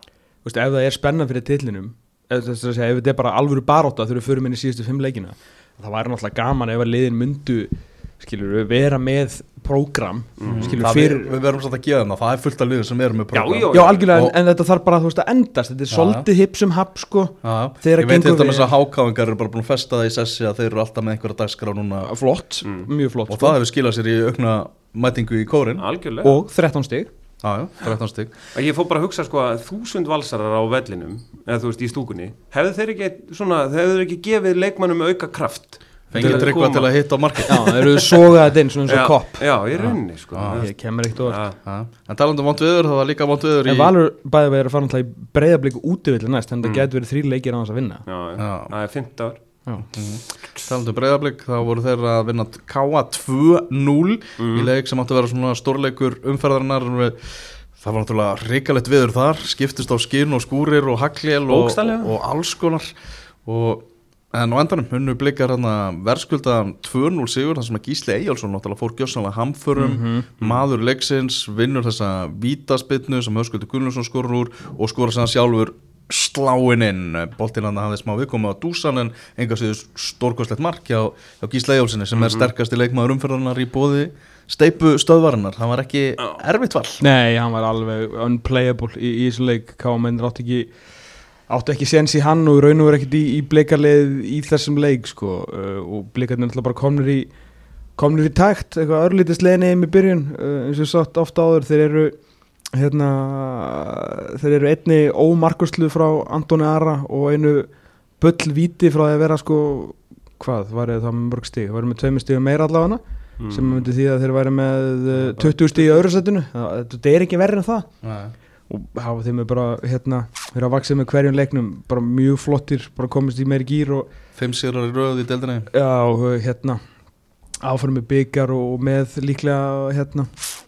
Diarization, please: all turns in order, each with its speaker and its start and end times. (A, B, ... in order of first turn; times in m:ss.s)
0:00.4-0:11.3 A
0:10.4-0:10.8 B
0:10.4-0:14.3 C
0:13.3-0:14.0 B
0:13.7-0:18.7 A
0:15.9-0:16.3 C
0:17.4-0:22.1 C
0:22.0-0:23.6 A
0:22.6-0:22.9 B
0:23.3-0:25.8 C
0:25.8-0:26.4 B
0:26.2-0:27.1 A
0:27.4-0:28.3 C
0:28.5-0:38.0 B
0:36.1-0:37.7 C
0:36.2-0:36.5 A
0:37.5-0:39.9 A
0:38.9-0:41.6 B
0:39.8-0:40.7 C
0:40.5-0:41.4 A
0:41.6-0:43.9 C
0:43.6-0:48.0 A
0:48.0-0:49.4 B
0:48.4-0:48.7 C
0:49.9-1:02.9 C
0:54.4-0:54.7 B
1:01.5-1:02.1 B
1:03.4-1:27.0 C
1:09.8-1:10.3 A
1:22.2-1:22.5 B
1:27.0-1:30.7 A
1:31.5-1:37.3 A
1:38.0-1:42.2 A
1:42.7-1:57.9 A
1:53.4-1:53.9 B
1:55.3-1:56.0 B
1:58.0-1:58.3 C
1:58.7-2:04.1 A
2:04.3-2:05.7 C
2:05.7-2:06.8 A
2:07.6-2:10.4 A